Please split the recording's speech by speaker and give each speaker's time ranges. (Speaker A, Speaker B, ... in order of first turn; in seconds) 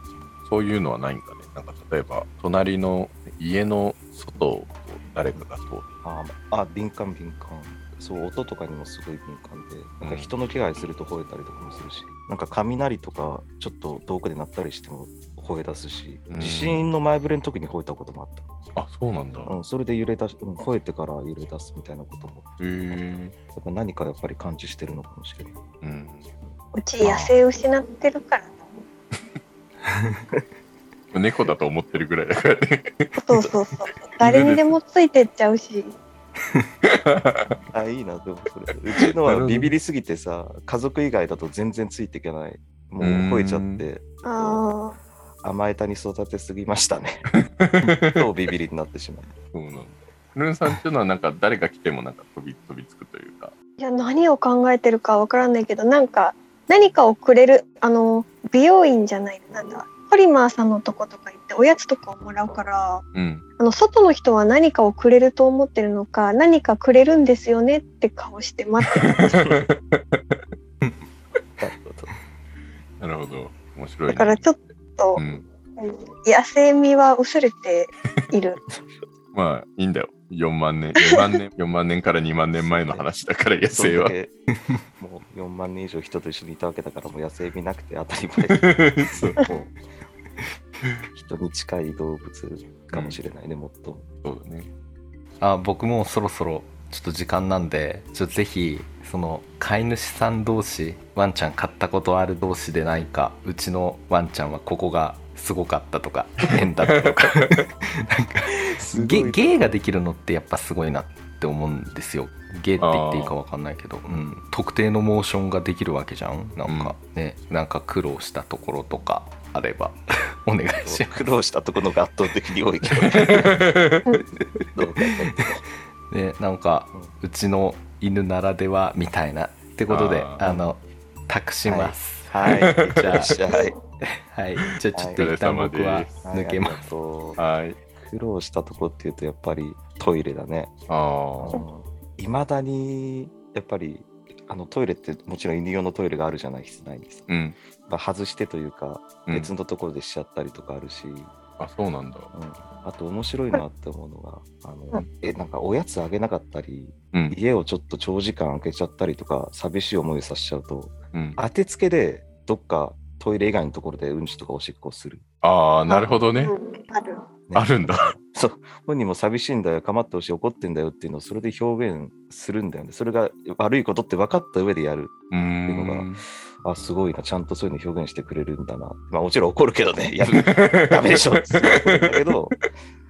Speaker A: 0.4-5.9, 10.0-10.3, 16.3-16.9, 18.8-19.5, 22.6-23.3, 25.8-26.2, 31.1-33.2, 34.2-34.7, 36.9-37.6, 39.2-39.7, 43.0-43.8, 47.6-48.2, 49.5-53.5, 63.1-63.4, 69.0-70.4, 73.0-74.6, 75.2-75.5, 79.3-84.1, 88.6-89.4, 92.9-93.2, 94.2-94.7, 107.0-107.6, 112.8-113.3, 116.7-117.0, 123.1-124.0, 129.9-130.4, 132.4-133.2, 135.2-136.2, 137.4-137.8, 140.9-141.6, 147.3-147.6, 151.6-152.3, 165.4-166.5, 167.5-168.1, 175.3-176.2, 180.3-181.8
Speaker B: 6.0-18.5, 19.4-22.5, 23.5-25.6, 26.4-27.3, 37.7-44.6, 45.4-47.2, 48.1-49.3, 71.6-72.1, 78.7-79.0, 82.5-83.0, 83.7-84.3, 85.0-89.8, 91.1-94.0, 108.6-109.7, 120.8-123.6, 124.7-125.6, 131.6-133.8, 134.9-135.2, 136.2-137.4, 137.9-140.7, 141.4-151.3, 152.3-165.2, 167.5-182.6
Speaker C: 26.7-28.6, 33.2-35.9, 44.2-45.0, 53.8-63.0, 63.6-69.5, 74.1-75.2, 75.8-78.6, 165.9-167.2
Speaker D: 29.9-30.2, 95.4-121.2, 124.6-125.1, 126.1-133.4, 134.2-136.9